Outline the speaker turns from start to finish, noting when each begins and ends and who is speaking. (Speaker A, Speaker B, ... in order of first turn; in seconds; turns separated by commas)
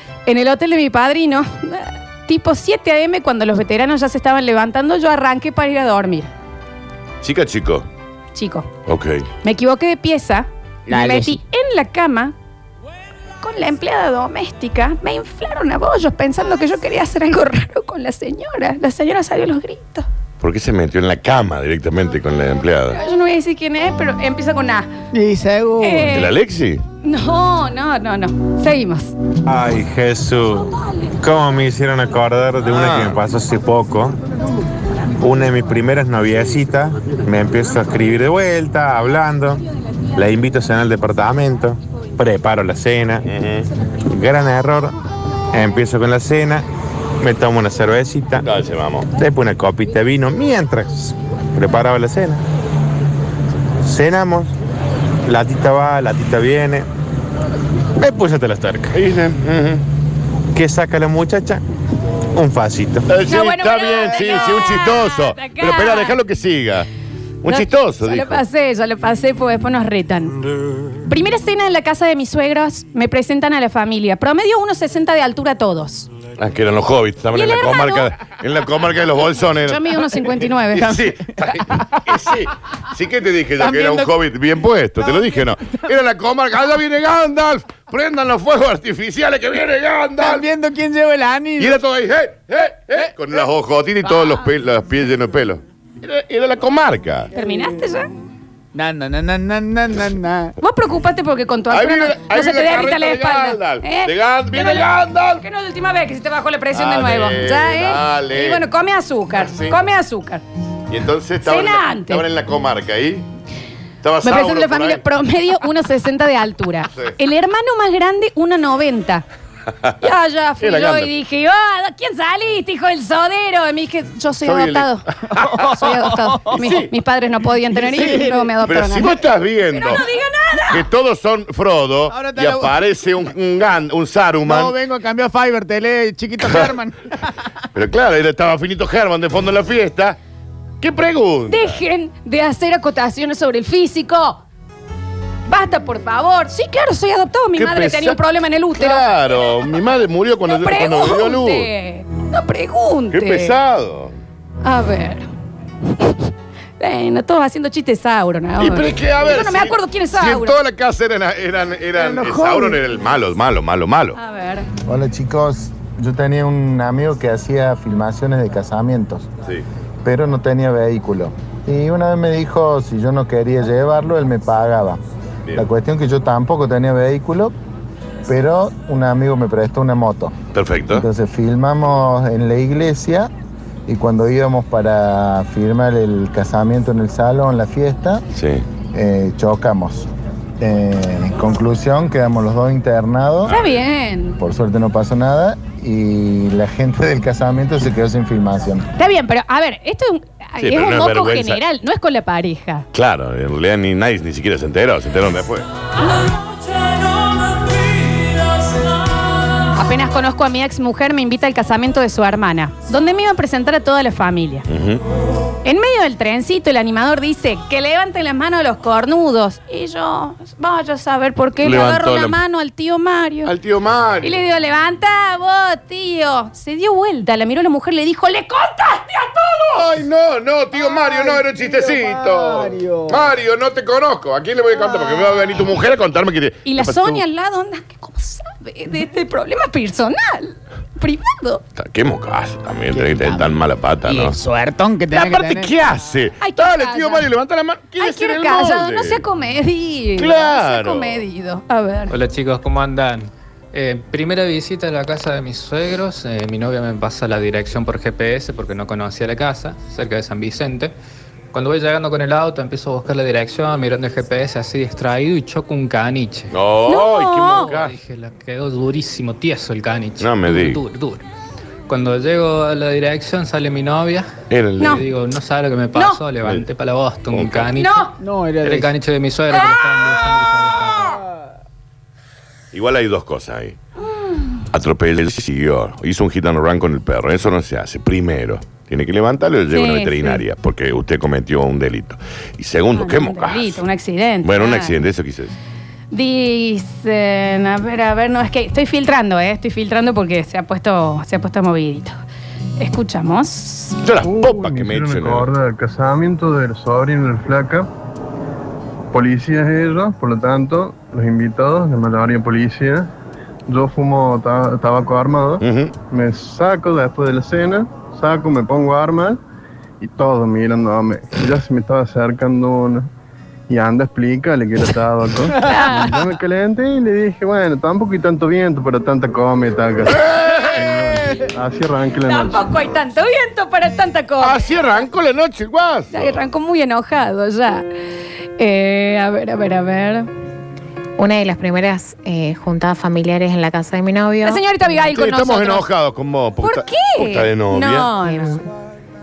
Speaker A: 0.2-6.3, Speaker B: 7.2-7.9, Speaker A: 8.3-8.7, Speaker B: 8.8-9.3, Speaker A: 9.4-12.3, Speaker C: 10.9-11.4, Speaker A: 13.4-20.1, Speaker B: 20.4-23.0, Speaker A: 22.9-24.9, Speaker C: 25.1-26.2, Speaker A: 25.8-26.3, Speaker B: 26.1-26.8, Speaker A: 27.0-29.1, Speaker D: 29.4-34.2, Speaker B: 32.6-33.2, Speaker D: 35.2-39.6, Speaker D: 40.1-43.3, Speaker B: 43.2-43.7, Speaker D: 44.1-44.9, Speaker D: 45.5-46.6, Speaker D: 47.2-48.5, Speaker B: 48.4-49.1, Speaker D: 49.1-52.4, Speaker D: 53.8-54.5, Speaker D: 55.2-56.9, Speaker D: 58.0-59.0, Speaker B: 58.9-59.8, Speaker D: 60.5-61.6, Speaker D: 62.3-63.1, Speaker B: 63.1-66.9, Speaker A: 63.2-66.2, Speaker B: 67.4-68.4, Speaker A: 67.4-70.4, Speaker A: 71.0-76.1, Speaker B: 76.4-90.5, Speaker A: 77.3-78.1, Speaker A: 79.7-80.9, Speaker C: 83.6-84.1, Speaker C: 90.2-91.8, Speaker B: 91.6-97.3, Speaker A: 97.3-98.1, Speaker C: 98.7-100.5, Speaker A: 100.6-110.4, Speaker B: 101.7-105.4, Speaker B: 106.7-108.7, Speaker B: 109.3-109.8, Speaker B: 110.9-113.3, Speaker A: 111.4-112.2, Speaker B: 114.0-115.0, Speaker A: 114.2-119.2, Speaker A: 120.0-130.9, Speaker B: 120.6-121.1, Speaker B: 124.4-125.8, Speaker C: 125.5-126.6, Speaker B: 126.5-126.9, Speaker C: 127.7-128.5, Speaker B: 128.6-130.0, Speaker B: 130.7-134.7, Speaker C: 132.1-132.7, Speaker C: 134.4-137.3, Speaker B: 136.4-136.7, Speaker B: 137.7-140.2, Speaker B: 140.8-141.8, Speaker A: 141.5-144.4, Speaker A: 145.5-149.1, Speaker B: 147.6-148.2, Speaker B: 148.7-151.7, Speaker A: 150.4-153.5, Speaker B: 153.1-154.1, Speaker A: 154.6-155.3, Speaker A: 155.9-156.3, Speaker A: 156.8-160.6, Speaker B: 158.6-164.2, Speaker C: 162.0-162.8, Speaker A: 164.1-164.7, Speaker E: 164.8-169.3, Speaker E: 170.0-175.0, Speaker E: 175.6-177.5, Speaker E: 178.3-180.3, Speaker B: 180.5-181.1, Speaker E: 180.9-183.3, Speaker E: 183.9-188.2, Speaker B: 188.3-188.6, Speaker E: 188.9-190.1, Speaker E: 190.6-193.5, Speaker B: 193.4-193.8, Speaker A: 193.4-194.4, Speaker E: 194.4-198.9, Speaker A: 198.9-202.9, Speaker B: 200.6-201.6, Speaker B: 202.9-205.7, Speaker A: 209.7-214.7, Speaker B: 214.7-215.0, Speaker A: 215.6-223.5, Speaker B: 221.6-222.4, Speaker B: 223.4-224.4, Speaker A: 224.2-229.9, Speaker B: 229.7-237.2, Speaker C: 230.9-233.2, Speaker A: 236.6-241.6, Speaker B: 241.8-244.3, Speaker C: 242.9-245.7, Speaker B: 245.1-249.2, Speaker A: 246.4-247.3, Speaker A: 248.0-252.2, Speaker B: 250.2-251.2, Speaker F: 252.1-260.9, Speaker F: 261.5-266.5, Speaker B: 266.5-267.9, Speaker A: 266.9-267.7, Speaker F: 267.6-271.2, Speaker B: 270.2-270.8, Speaker F: 271.9-274.3, Speaker B: 274.5-275.0, Speaker F: 274.8-278.1, Speaker A: 275.9-276.2, Speaker B: 277.3-277.7, Speaker A: 277.7-278.1, Speaker C: 278.2-278.9, Speaker F: 278.6-281.2, Speaker B: 282.7-283.8, Speaker A: 284.1-284.6, Speaker B: 284.7-293.8, Speaker A: 289.7-290.4, Speaker A: 292.9-295.0, Speaker B: 294.4-295.6, Speaker A: 296.1-302.1, Speaker A: 302.8-304.0, Speaker B: 304.0-305.5, Speaker G: 304.2-307.9, Speaker G: 309.1-313.1, Speaker G: 313.7-319.4, Speaker B: 315.6-315.9, Speaker G: 320.0-323.1, Speaker G: 323.7-332.9, Speaker A: 325.6-326.2, Speaker B: 330.1-330.9, Speaker A: 332.2-334.6, Speaker B: 334.4-336.4, Speaker A: 336.1-337.8, Speaker A: 338.6-340.3, Speaker H: 341.2-344.6, Speaker A: 344.4-345.9, Speaker B: 345.1-348.1, Speaker A: 346.6-348.6, Speaker H: 348.2-348.6